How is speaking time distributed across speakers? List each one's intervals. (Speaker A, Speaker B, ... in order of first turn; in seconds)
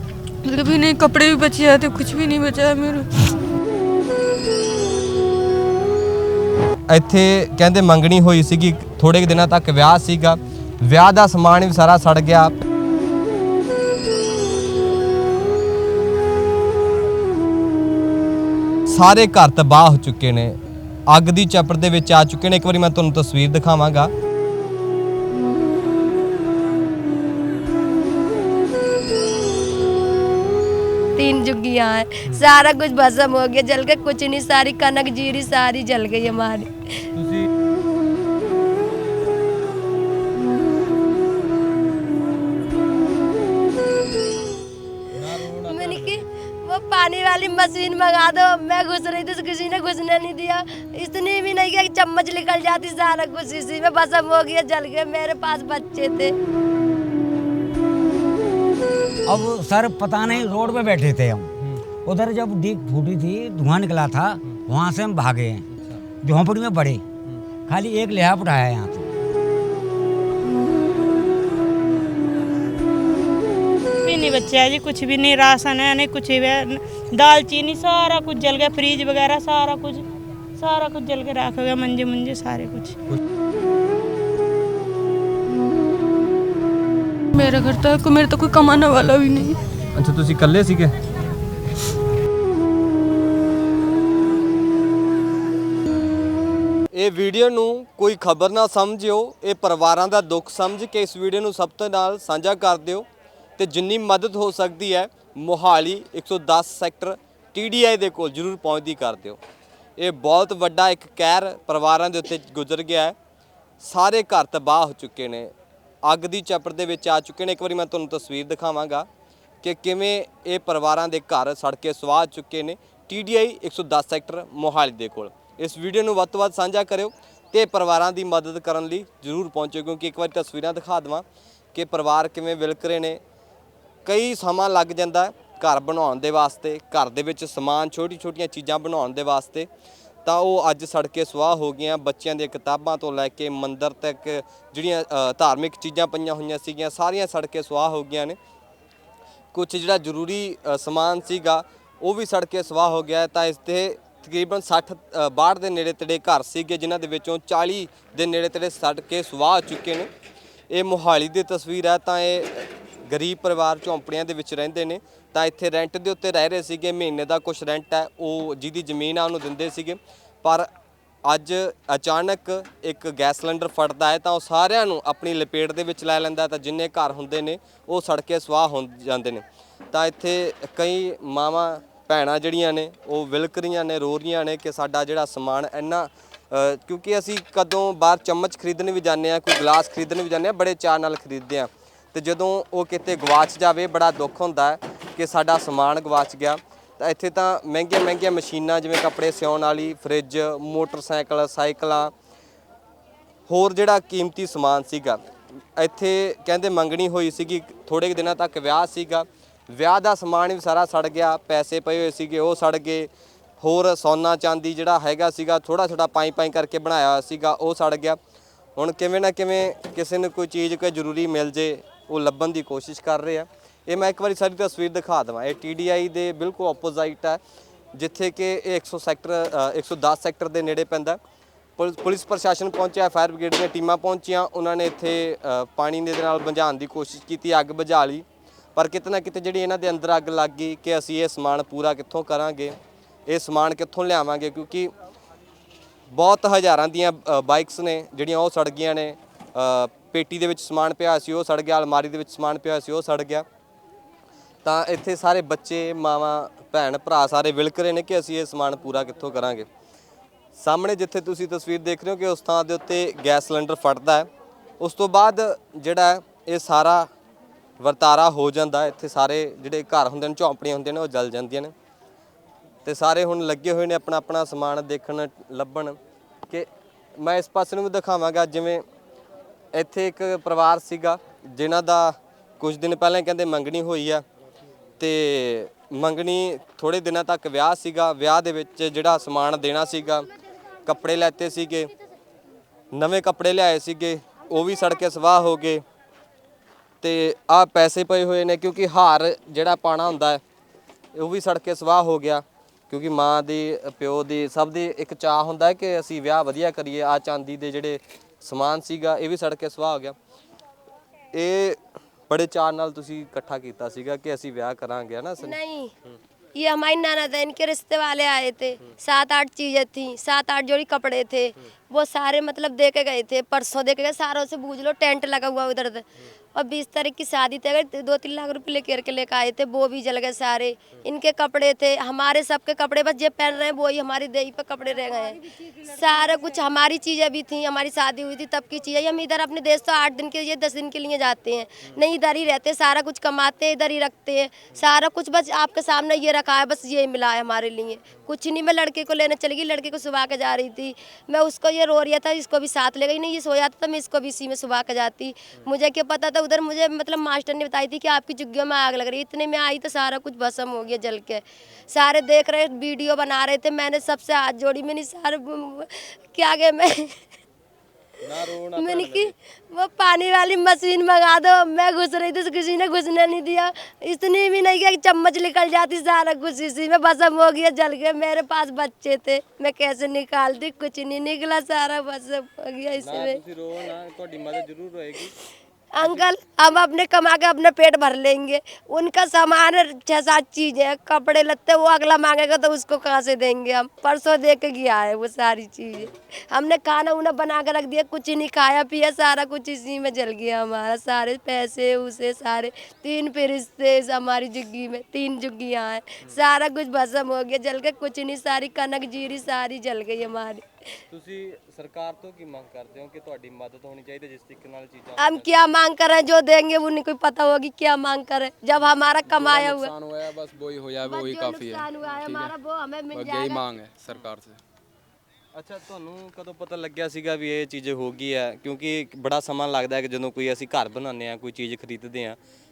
Speaker A: 0.4-3.3, 87.3-89.6
Speaker B: 6.9-12.6, 18.9-24.1, 37.1-37.5, 45.1-46.2, 60.4-60.8, 65.7-66.0, 89.9-90.9, 96.9-103.1, 103.6-109.4, 110.0-113.2, 113.8-115.5, 116.0-119.1, 119.6-133.2, 134.1-139.7, 140.2-148.4, 149.5-160.1, 160.7-170.7, 171.2-202.1, 203.5-205.2, 205.8-213.1, 213.6-218.2, 218.8-227.4, 227.9-231.2, 231.8-238.2, 238.8-242.8, 243.3-244.9, 246.1-253.4, 254.6-259.7, 260.6-264.3, 264.8-267.1, 267.8-271.7, 272.8-276.0, 276.5-278.8, 279.7-284.2, 285.0-290.3, 290.9-291.9, 292.9-295.8, 297.0-300.4, 301.1-310.1, 311.3-316.2, 368.2-369.3, 383.0-385.3, 411.1-415.7, 425.5-432.4
Speaker C: 31.1-37.0, 45.6-56.3, 315.4-315.9, 316.6-367.2, 368.8-383.4, 385.9-410.6, 415.2-419.9, 421.0-423.6
Speaker D: 59.3-61.5, 62.0-65.6, 66.2-67.0, 67.7-69.1
Speaker E: 74.0-83.0
Speaker F: 419.2-422.5, 423.1-424.6